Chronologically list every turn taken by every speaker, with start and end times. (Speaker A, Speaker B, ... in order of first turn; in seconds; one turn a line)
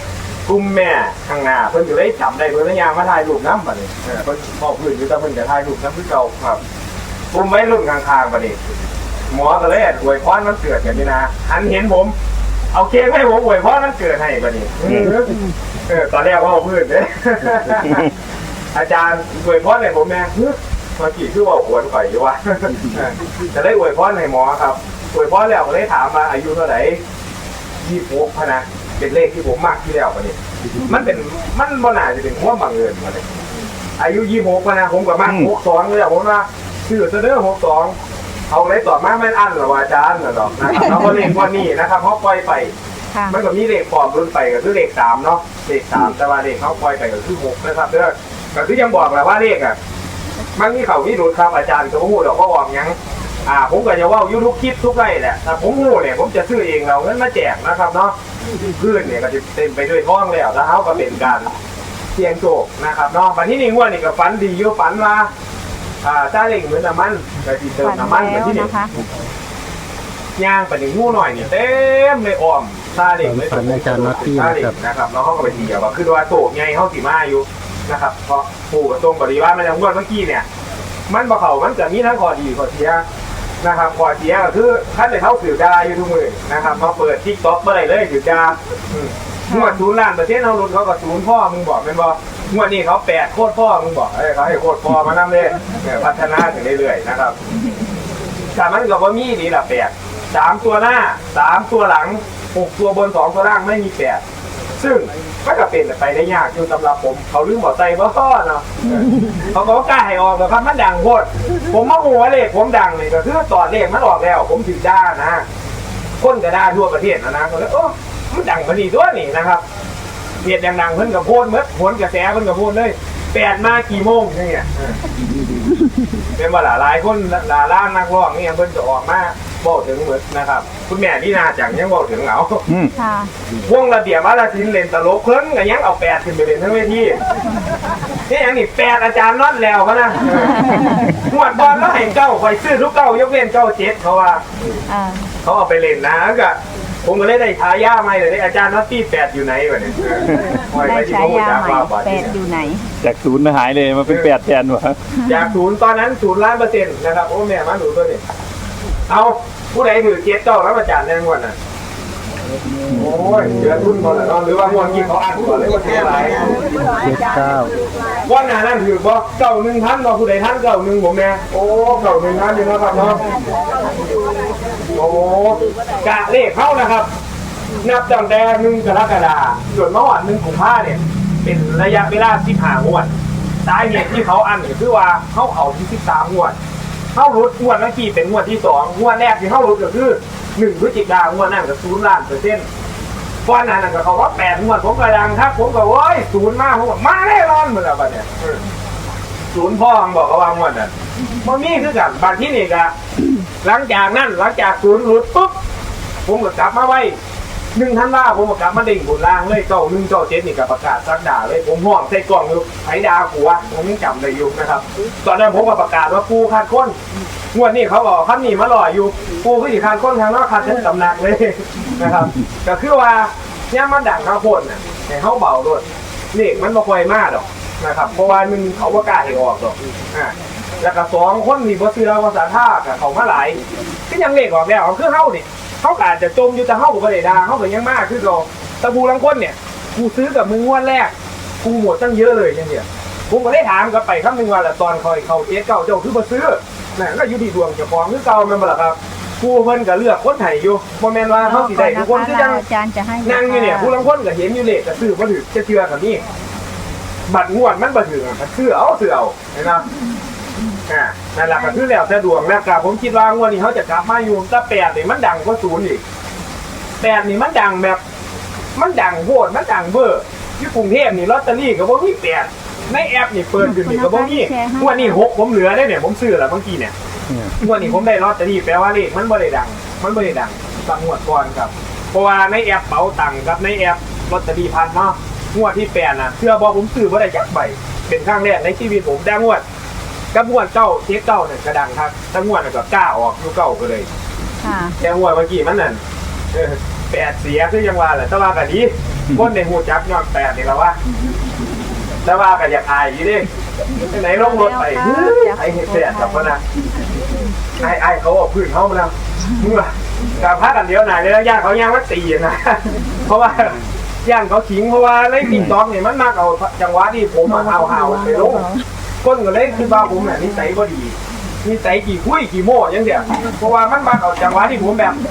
Speaker A: 0.5-6.6
Speaker A: 7.3-8.6
Speaker A: 9.3-12.1
Speaker A: 12.7-15.3
Speaker B: 15.2-15.5
Speaker A: 15.9-18.1
Speaker A: 18.7-27.0
Speaker A: 27.8-33.3
Speaker A: 34.0-37.9
Speaker C: 35.2-35.5
Speaker A: 38.5-42.7
Speaker A: 43.3-49.8
Speaker A: 50.5-58.1
Speaker A: 58.8-61.5
Speaker A: 62.1-65.3
Speaker A: 66.0-68.7
Speaker B: 67.8-68.9
Speaker A: 70.4-80.5
Speaker D: 73.2-74.7
Speaker A: 81.1-83.0
Speaker A: 83.6-97.3
Speaker B: 89.5-89.8
Speaker A: 98.5-104.2
Speaker A: 104.8-115.4
Speaker A: 116.2-119.6
Speaker A: 120.4-125.0
Speaker A: 126.3-132.7
Speaker B: 132.9-133.3
Speaker A: 133.6-137.2
Speaker A: 138.3-144.4
Speaker B: 140.5-141.0
Speaker B: 144.9-145.2
Speaker A: 145.4-152.3
Speaker B: 150.8-152.8
Speaker C: 153.0-155.0
Speaker A: 155.2-158.2
Speaker A: 159.1-161.6
Speaker A: 162.9-166.6
Speaker D: 166.9-167.7
Speaker A: 168.2-173.2
Speaker A: 174.9-177.1
Speaker A: 177.8-183.1
Speaker A: 183.6-186.5
Speaker A: 187.1-192.6
Speaker A: 193.4-198.6
Speaker A: 199.5-202.9
Speaker A: 203.6-205.5
Speaker A: 206.2-207.2
Speaker A: 207.7-216.9
Speaker A: 217.5-252.6
Speaker B: 251.4-253.9
Speaker A: 253.2-256.2
Speaker A: 257.3-259.8
Speaker A: 260.9-266.0
Speaker A: 267.0-268.0
Speaker A: 268.8-276.9
Speaker B: 273.6-275.2
Speaker A: 277.6-289.6
Speaker A: 290.3-294.1
Speaker B: 294.6-294.9
Speaker A: 295.0-296.0
Speaker A: 296.5-300.9
Speaker A: 302.2-306.6
Speaker B: 304.3-306.6
Speaker A: 307.8-318.7
Speaker B: 318.5-318.8
Speaker A: 319.2-325.2